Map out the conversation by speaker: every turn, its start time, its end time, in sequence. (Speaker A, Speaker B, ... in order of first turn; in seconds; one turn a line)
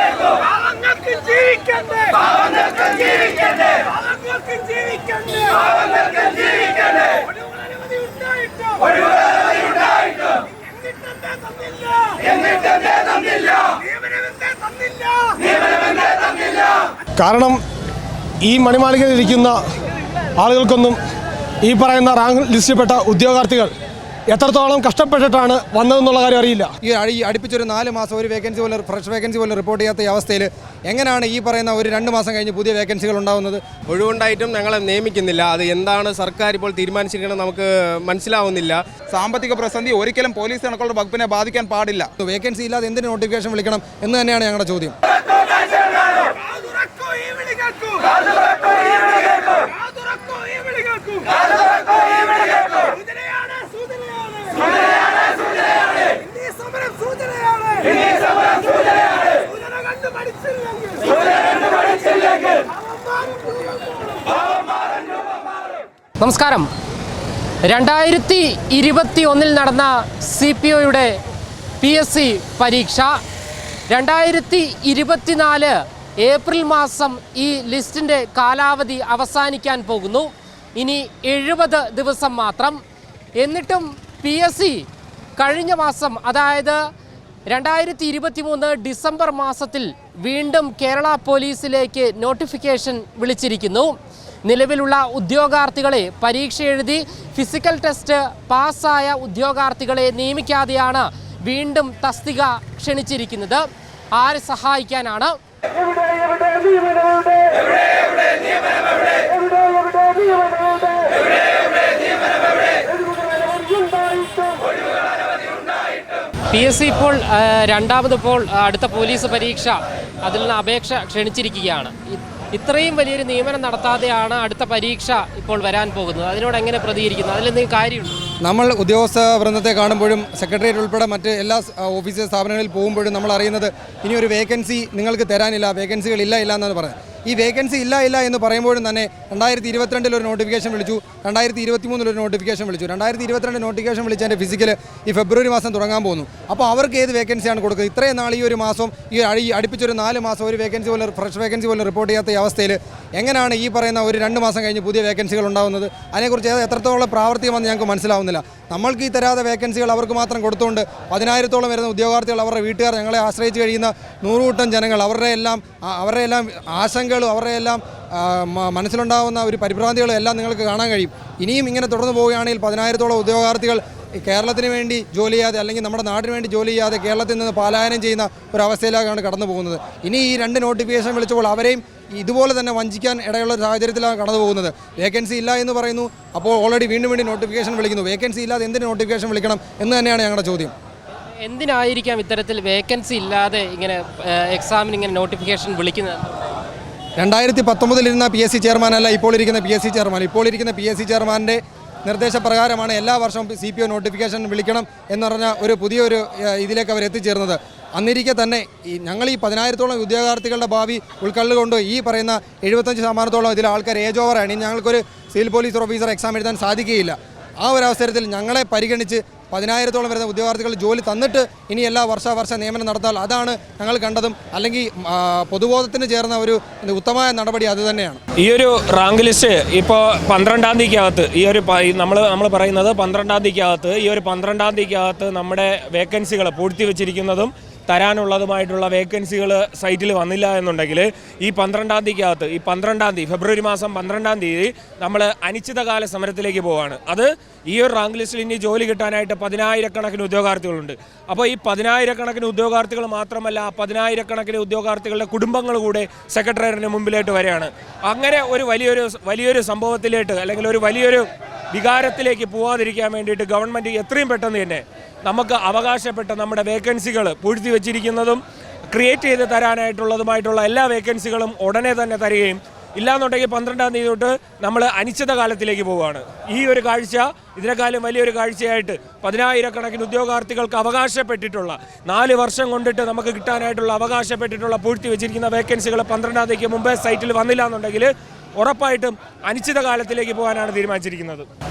Speaker A: 0.5-2.2
Speaker A: 3.8-6.3
Speaker A: 7.5-8.9
Speaker A: 10.9-12.2
Speaker A: 13.7-15.3
Speaker B: 17.1-17.6
Speaker B: 18.4-19.6
Speaker B: 20.4-21.0
Speaker B: 21.6-23.7
Speaker B: 24.3-26.7
Speaker C: 26.8-33.6
Speaker A: 33.9-38.8
Speaker D: 39.1-42.1
Speaker C: 42.2-44.9
Speaker A: 46.2-48.2
Speaker A: 49.5-51.3
Speaker A: 52.8-54.6
Speaker A: 56.2-57.8
Speaker A: 59.5-60.6
Speaker A: 62.9-63.4
Speaker E: 66.2-66.7
Speaker E: 67.7-71.2
Speaker E: 71.8-73.2
Speaker E: 73.9-82.8
Speaker E: 83.4-84.8
Speaker E: 85.4-86.8
Speaker E: 87.5-105.3
Speaker E: 106.2-106.9
Speaker E: 113.5-114.6
Speaker E: 116.5-128.2
Speaker C: 128.4-190.7
Speaker E: 191.4-196.5
Speaker C: 197.2-228.2
Speaker F: 228.4-291.5